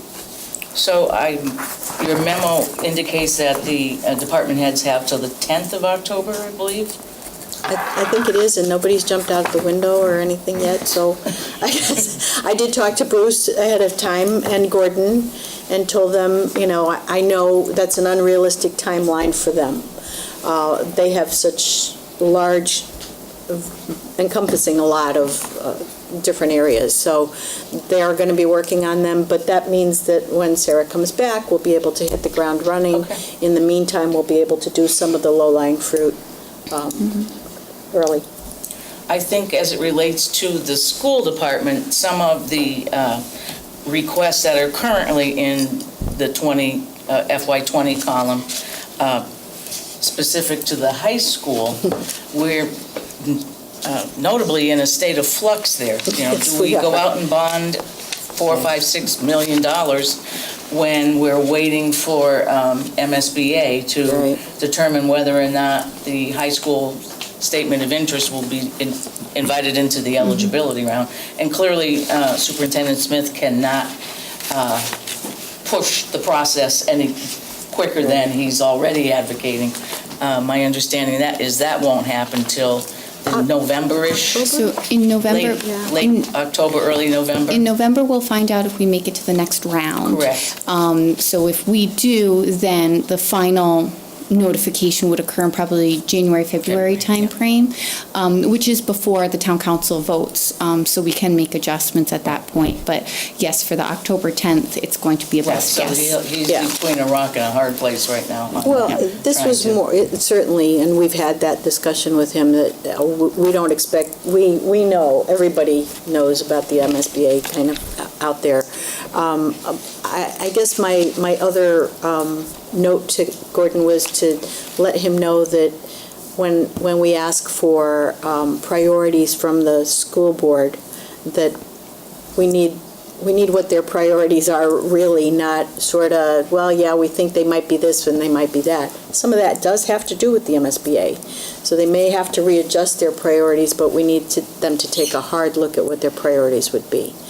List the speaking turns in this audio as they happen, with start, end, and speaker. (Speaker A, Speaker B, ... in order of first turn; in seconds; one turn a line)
Speaker A: 0.7-7.0
Speaker B: 7.7-19.9
Speaker B: 20.4-22.9
Speaker B: 23.5-36.2
Speaker A: 32.9-33.2
Speaker B: 36.7-37.3
Speaker B: 37.9-38.2
Speaker A: 39.1-43.2
Speaker A: 43.8-49.3
Speaker A: 50.0-57.8
Speaker B: 56.2-57.0
Speaker A: 58.3-73.9
Speaker B: 64.0-64.4
Speaker A: 74.5-74.9
Speaker A: 75.6-84.6
Speaker B: 84.3-84.7
Speaker C: 84.4-86.3
Speaker A: 85.3-87.7
Speaker B: 85.6-85.9
Speaker C: 87.5-106.2
Speaker A: 90.0-90.5
Speaker A: 96.7-97.3
Speaker A: 105.4-109.8
Speaker B: 108.6-125.8
Speaker B: 126.3-131.6
Speaker B: 132.3-147.1